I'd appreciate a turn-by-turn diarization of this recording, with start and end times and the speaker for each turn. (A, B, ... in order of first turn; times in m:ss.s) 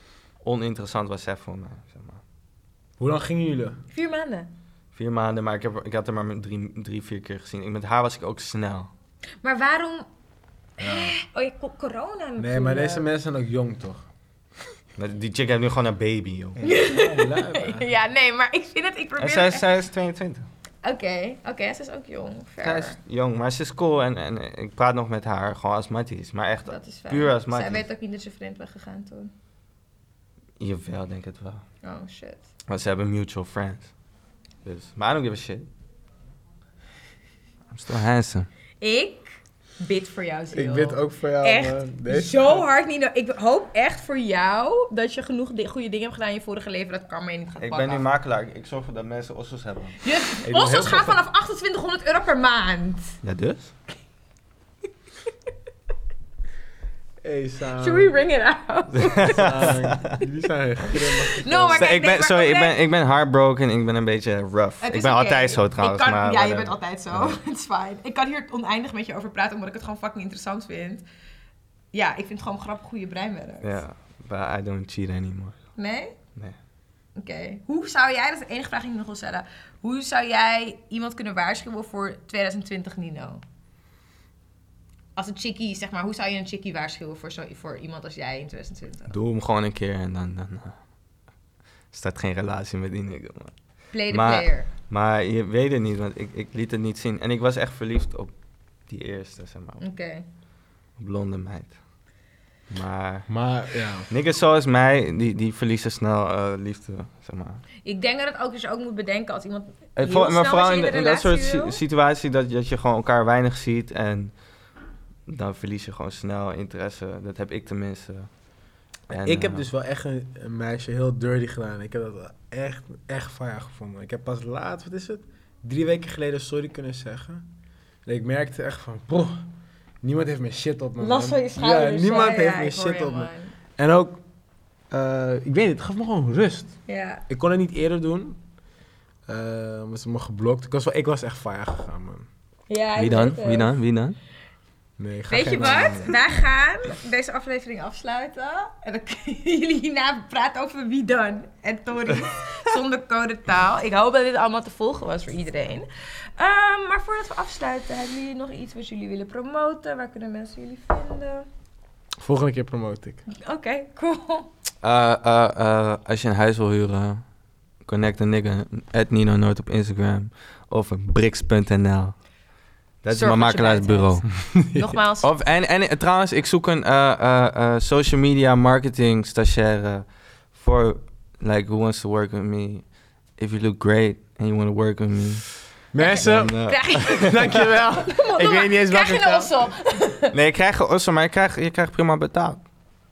0:00.4-0:02.2 A
0:03.0-0:03.8 B
0:03.9-0:04.5 C
0:04.9-0:08.9 A
0:09.4-0:10.1 C
0:10.8-0:11.2 B
0:10.8-0:13.1 C
0:12.4-0:14.0 B
0:15.0-0:16.6 A
0:16.6-0:17.9 B
0:16.6-0:19.6 C
0:19.2-0:20.5 A
0:20.8-0:23.0 C
0:22.6-0:27.9 A
0:26.7-0:29.3 C
0:30.6-0:31.6 A
0:31.8-0:32.5 C
0:32.7-0:33.9 A
0:34.6-0:35.7 A
0:37.7-0:38.5 A
0:38.8-0:48.0 C
0:40.5-0:42.7 B
0:47.6-0:51.2 A
0:50.0-0:53.2 C
0:53.2-0:53.7 A
0:57.2-0:58.2 B
0:57.8-0:59.6 C
0:59.0-1:00.2 A
0:59.3-1:01.9 B
1:00.9-1:02.8 C
1:01.7-1:07.4 A
1:04.8-1:11.0 C
1:11.9-1:13.8 C
1:13.6-1:15.6 A
1:15.8-1:16.2 C
1:17.2-1:23.4 C
1:25.2-1:29.2 C
1:29.1-1:30.8 A
1:31.9-1:33.5 A
1:33.9-1:34.7 C
1:34.1-1:38.3 A
1:38.9-1:39.8 A
1:39.8-1:40.2 C
1:41.0-1:41.8 A
1:42.7-1:43.3 A
1:43.3-1:44.1 B
1:44.1-1:47.6 A
1:47.8-1:51.8 C
1:50.0-1:54.3 A
1:55.3-1:58.3 A
1:59.1-1:59.7 A
1:59.2-2:07.4 B
2:08.0-2:09.5 B
2:10.0-2:14.2 B
2:11.0-2:13.5 C
2:14.9-2:16.8 B
2:16.9-2:17.2 C
2:17.3-2:18.4 B
2:19.3-2:22.3 B
2:22.7-2:23.8 C
2:23.0-2:24.2 A
2:25.0-2:26.2 B
2:25.3-2:41.5 C
2:25.7-2:26.1 A
2:42.2-2:43.2 B
2:43.3-2:44.5 C
2:44.8-2:47.2 A
2:47.8-2:52.2 A
2:53.0-2:54.3 A
2:53.1-2:55.3 C
2:54.5-2:55.0 B
2:55.2-3:02.9 A
3:03.4-3:05.6 A
3:05.9-3:09.7 B
3:06.0-3:10.4 C
3:06.2-3:07.8 A
3:10.3-3:12.6 A